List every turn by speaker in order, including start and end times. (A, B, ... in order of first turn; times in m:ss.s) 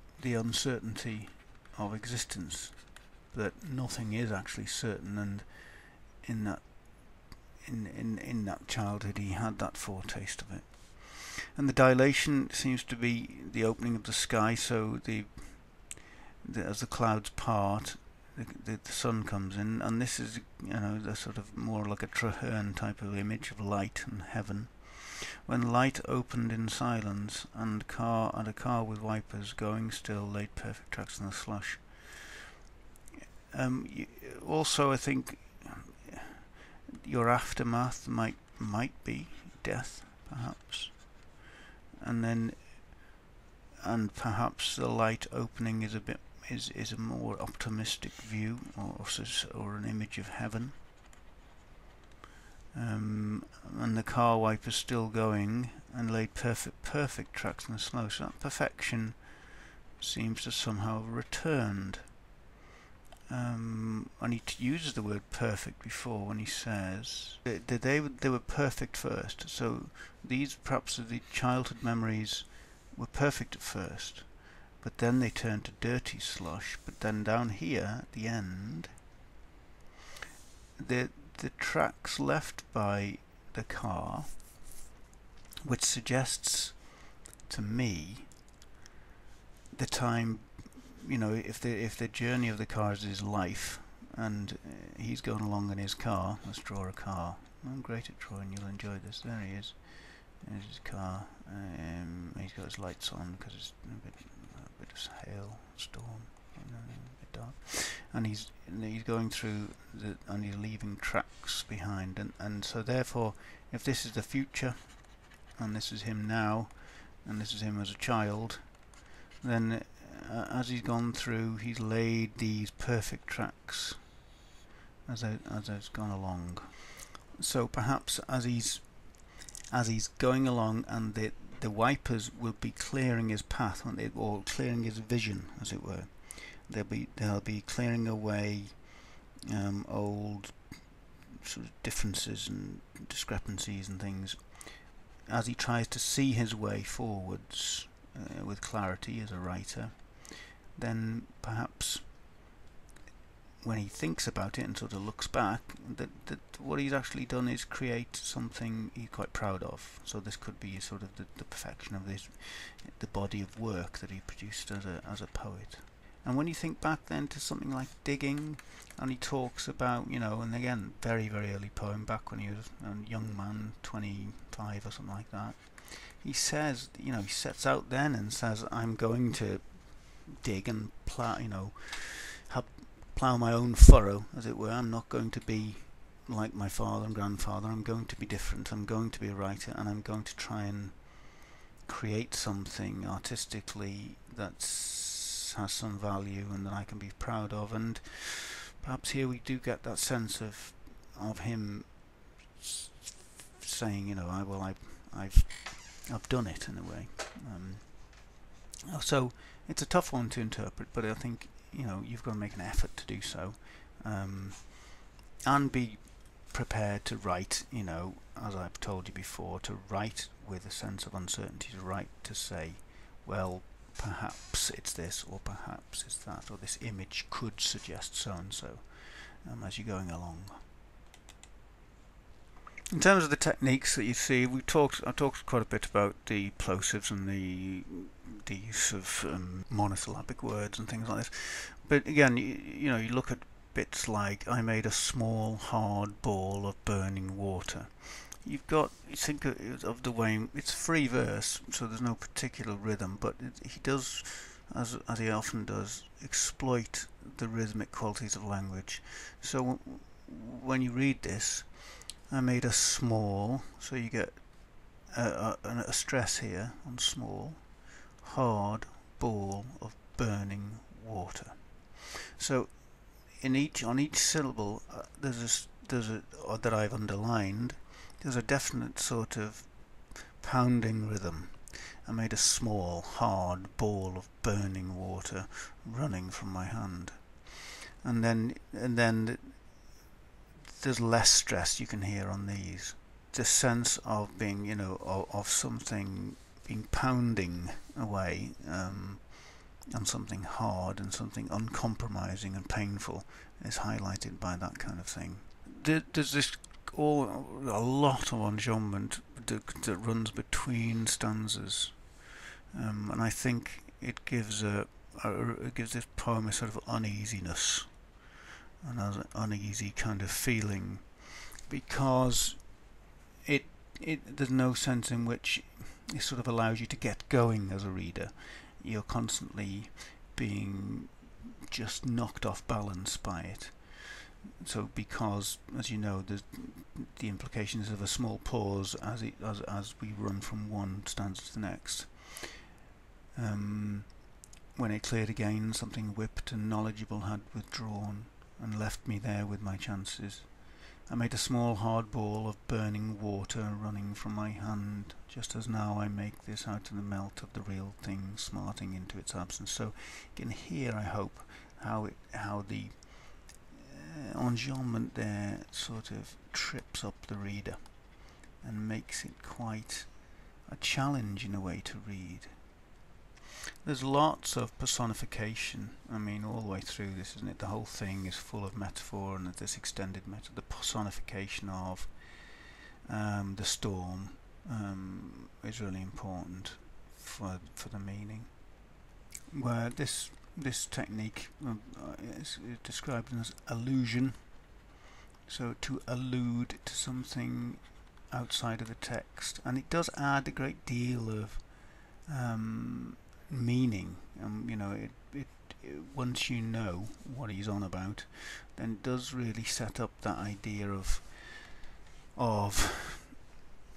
0:00.2-0:32.3 A
0:33.5-0:41.3 A
0:42.0-0:43.2 A
0:43.8-0:50.8 A
0:52.7-0:59.4 A
1:00.0-1:02.1 A
1:03.3-1:19.0 A
1:20.8-1:24.5 A
1:25.6-1:28.4 A
1:29.7-1:58.9 A
1:59.4-2:04.2 A
2:05.1-2:32.1 A
2:33.6-3:23.0 A
3:23.5-3:50.6 A
3:52.9-4:49.9 A
4:50.7-5:18.1 A
5:18.8-5:22.9 A
5:23.4-5:42.6 A
5:43.4-6:12.8 A
6:13.8-6:28.8 A
6:29.5-6:34.7 A
6:35.5-6:51.8 A
6:52.3-6:53.3 A